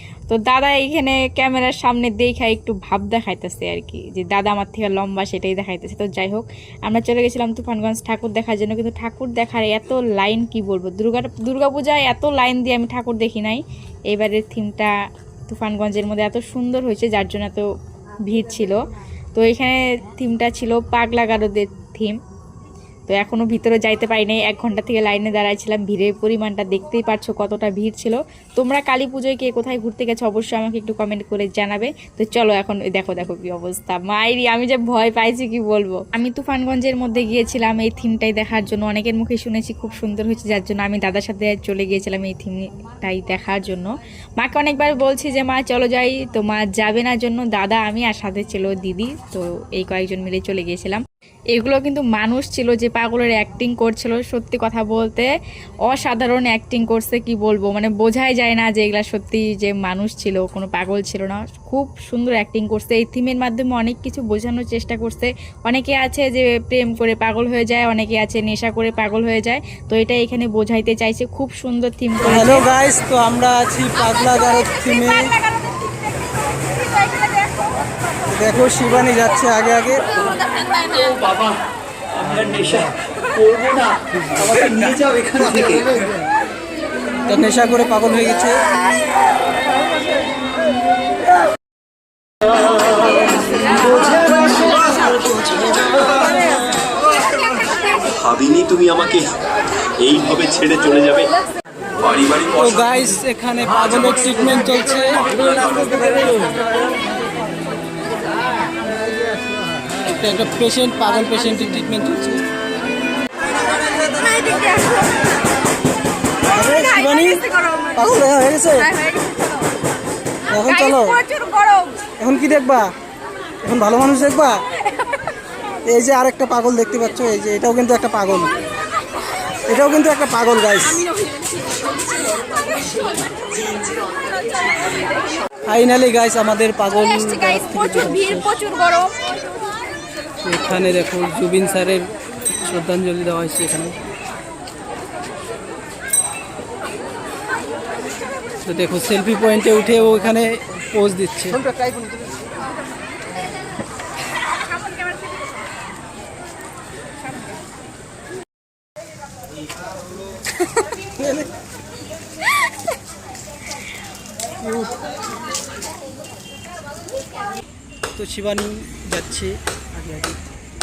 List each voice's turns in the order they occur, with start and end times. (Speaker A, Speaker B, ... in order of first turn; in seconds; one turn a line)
Speaker A: 0.3-14.9
Speaker A: 15.5-17.7
Speaker A: 18.3-18.8
Speaker A: 19.4-22.2
Speaker A: 23.1-51.0
Speaker A: 51.5-55.3
Speaker A: 55.9-72.7
Speaker B: 72.2-75.4
Speaker B: 78.3-80.1
Speaker C: 80.7-81.4
Speaker D: 82.6-82.9
Speaker C: 83.5-83.9
Speaker D: 84.5-85.8
Speaker C: 84.5-85.8
Speaker B: 87.2-88.6
Speaker C: 94.0-95.4
Speaker D: 98.1-99.3
Speaker D: 100.0-101.3
Speaker D: 102.0-102.5
Speaker B: 102.5-105.3
Speaker D: 105.3-105.9
Speaker B: 110.0-112.4
Speaker C: 114.2-115.0
Speaker B: 116.5-119.0
Speaker B: 120.5-121.3
Speaker C: 121.5-121.9
Speaker B: 122.2-122.9
Speaker B: 123.6-124.6
Speaker B: 125.9-128.6
Speaker B: 129.7-131.1
Speaker B: 135.6-139.0
Speaker B: 140.4-144.0
Speaker B: 148.7-151.7
Speaker B: 161.2-161.5
Speaker B: 168.2-170.4